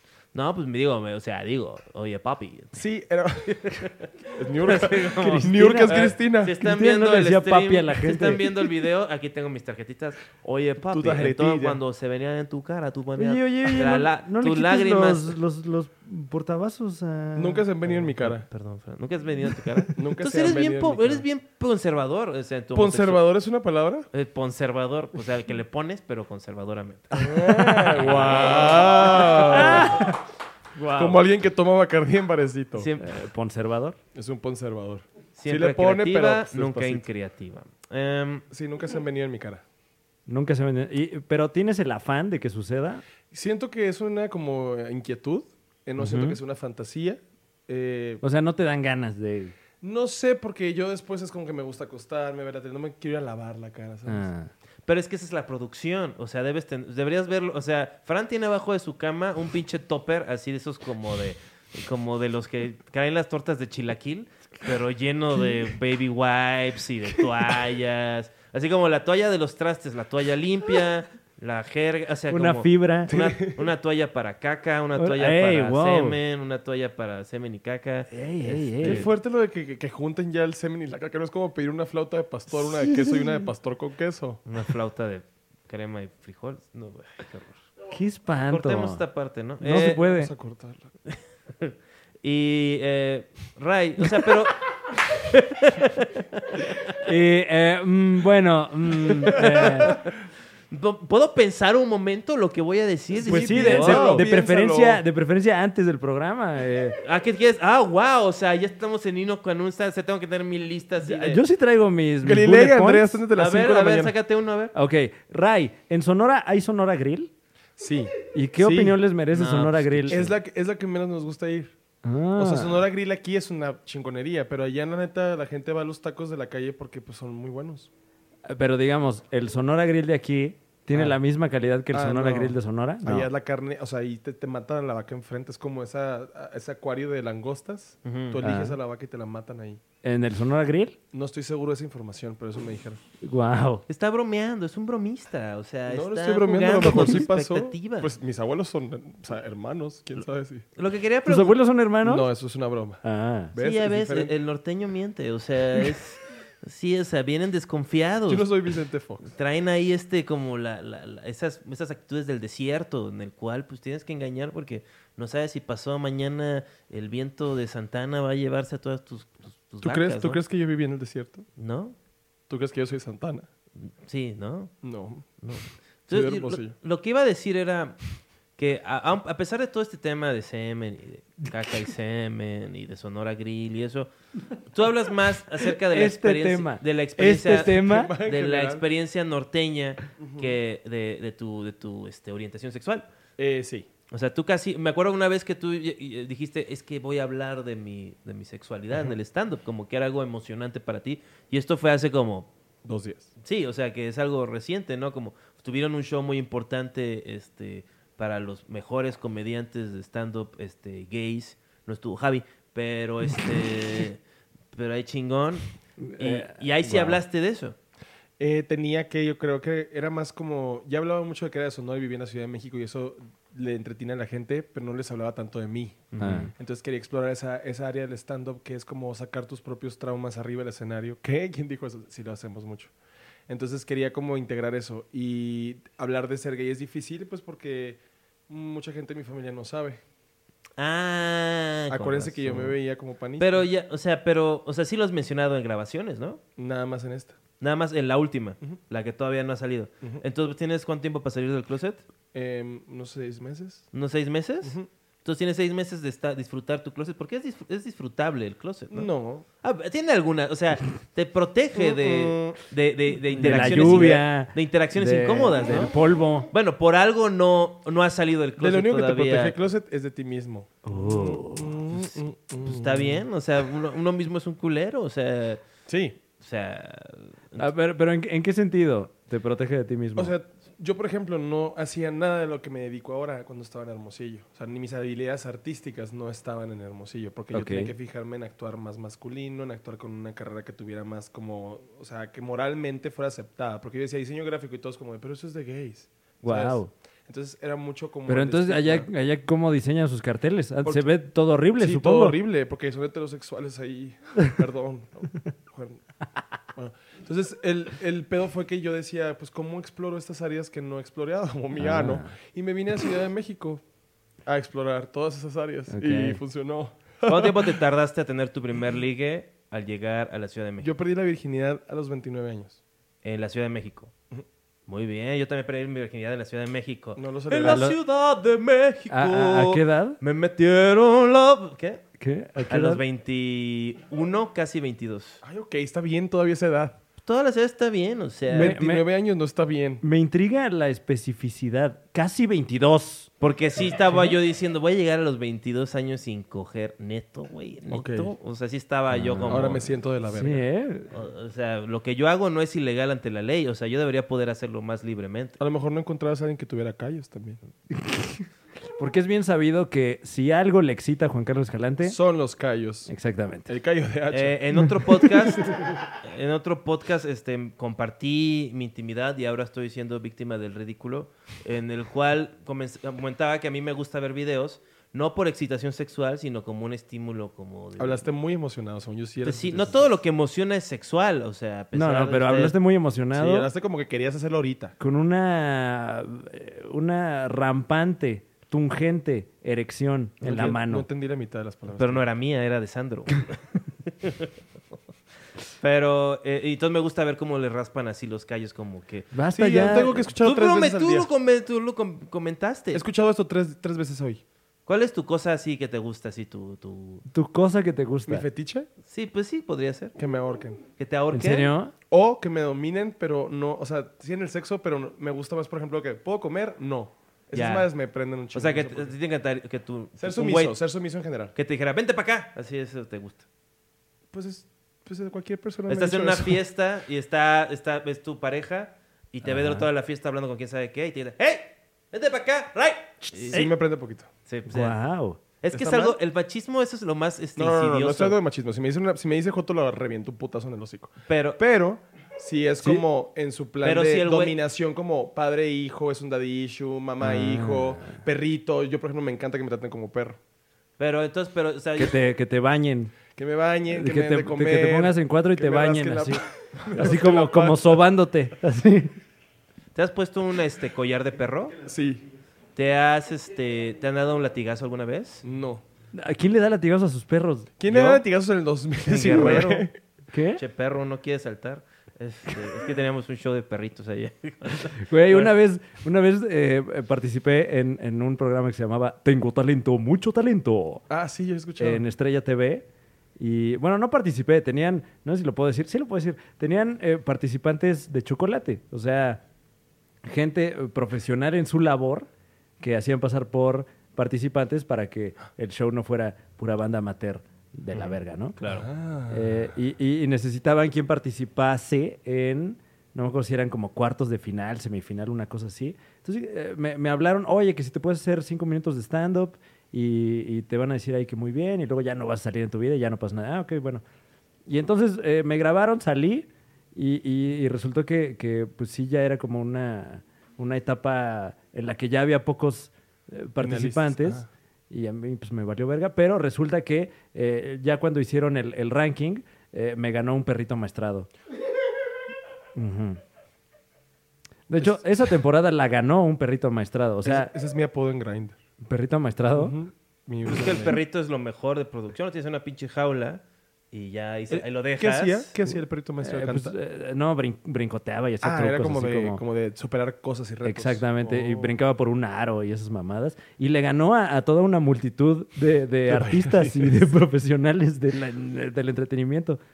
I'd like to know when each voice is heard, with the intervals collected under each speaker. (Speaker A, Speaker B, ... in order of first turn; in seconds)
Speaker A: 0.3-2.8, 3.4-15.4, 17.9-23.2, 24.1-27.2, 27.9-29.9, 32.8-33.1, 35.4-38.5, 54.9-79.1, 84.5-87.7, 88.5-90.1, 91.1-97.0, 99.3-100.0, 100.7-104.2, 107.0-111.4, 113.3-114.7, 119.3-120.3, 138.0-138.4, 143.9-148.1, 150.8-151.6, 153.6-158.5, 159.3-170.4, 171.6-171.9, 174.0-174.7, 175.4-178.0, 178.6-184.1, 184.6-193.1, 194.1-202.5, 203.4-214.2, 214.7-215.7, 216.2-217.8, 226.1-226.5, 240.8-242.8, 243.4-246.4, 247.6-252.0, 253.9-259.1, 259.6-265.9, 266.5-269.6, 272.6-275.6, 276.4-277.7, 317.2-320.9, 323.2-324.1, 324.9-332.0, 332.7-335.4, 337.2-338.8, 343.4-349.9, 351.1-355.6, 364.3-378.2, 379.4-382.8, 391.9-394.5, 395.8-399.3, 400.4-403.0, 404.9-407.2, 409.1-410.1, 411.0-411.7, 417.5-417.9, 418.5-420.8, 421.6-423.4, 425.9-433.7, 434.5-434.9, 435.6-438.4, 441.3-441.6, 443.8-444.6, 451.0-452.1, 459.9-461.8, 462.8-465.4, 467.9-468.2, 469.1-469.9, 470.6-475.5, 497.9-498.9, 540.5-543.4, 543.9-545.5
Speaker B: 2.7-3.5, 4.3-6.5, 10.9-11.8, 17.4-18.4, 19.9-21.2, 22.7-24.1, 27.1-30.1, 30.9-32.9, 34.1-37.0, 38.5-39.6, 43.3-48.2, 49.8-54.3, 73.1-73.7, 78.8-84.4, 89.7-90.9, 103.1-105.0, 112.2-114.1, 117.8-119.0, 120.1-121.7, 122.3-127.9, 131.9-139.8, 141.1-143.0, 145.9-150.6, 152.0-153.0, 153.5-154.3, 158.3-159.3, 169.8-171.4, 172.5-173.5, 174.8-175.4, 176.1-176.7, 187.5-188.8, 190.2-190.6, 193.4-193.9, 202.8-203.3, 218.4-232.9, 233.5-240.0, 241.9-243.7, 246.6-247.4, 252.3-253.9, 254.6-254.9, 258.9-259.4, 261.7-262.6, 263.3-264.2, 268.6-273.2, 275.9-276.2, 280.1-299.1, 300.8-301.1, 301.8-306.0, 306.7-313.8, 314.4-317.8, 320.8-322.8, 327.1-327.9, 335.4-337.0, 338.5-340.0, 347.9-348.3, 349.5-350.6, 355.6-357.6, 362.0-363.1, 363.6-365.9, 378.0-380.0, 383.3-384.9, 390.4-392.2, 399.5-401.3, 402.9-404.4, 408.3-408.9, 410.1-410.8, 412.1-419.1, 420.2-421.5, 424.3-426.6, 433.5-434.3, 435.7-436.2, 437.6-450.4, 453.4-458.0, 461.8-462.2, 465.4-465.8, 467.8-469.9, 481.1-482.0, 498.6-499.7, 523.6-524.5, 537.2-538.6, 539.5-541.0, 544.5-546.7, 548.4-551.8, 556.1-557.1
Speaker C: 5.2-8.4, 13.2-17.6, 27.3-30.2, 30.8-31.2, 33.0-34.0, 40.3-43.0, 46.0-46.4, 48.2-49.5, 54.1-54.5, 72.3-73.1, 75.0-76.2, 78.1-79.0, 82.5-83.5, 87.9-89.0, 89.6-90.3, 97.0-100.0, 103.2-107.0, 111.0-113.2, 114.7-117.3, 118.3-120.2, 122.0-122.8, 128.5-133.3, 138.4-138.8, 140.0-140.9, 143.2-143.8, 151.2-152.3, 153.0-153.5, 185.9-188.1, 216.0-217.2, 226.2-226.5, 263.4-266.5, 270.8-271.7, 277.6-280.3, 287.5-287.9, 296.4-296.9, 298.3-302.4, 311.8-312.3, 315.9-316.4, 327.6-327.9, 329.1-330.2, 332.2-333.0, 338.5-339.1, 340.0-343.3, 349.1-351.1, 357.9-362.2, 363.1-363.7, 381.9-383.7, 385.0-391.1, 399.3-400.3, 407.3-408.4, 411.3-411.9, 429.4-429.9, 433.3-433.7, 434.7-435.4, 447.2-448.2, 452.0-453.1, 453.9-459.1, 466.1-467.8, 470.3-470.6, 475.0-481.0, 481.8-482.9, 483.4-489.4, 490.2-492.3, 492.8-498.6, 499.3-514.0, 514.7-531.3, 532.7-533.2, 534.7-537.5, 538.9-539.8, 546.2-549.4, 550.6-559.6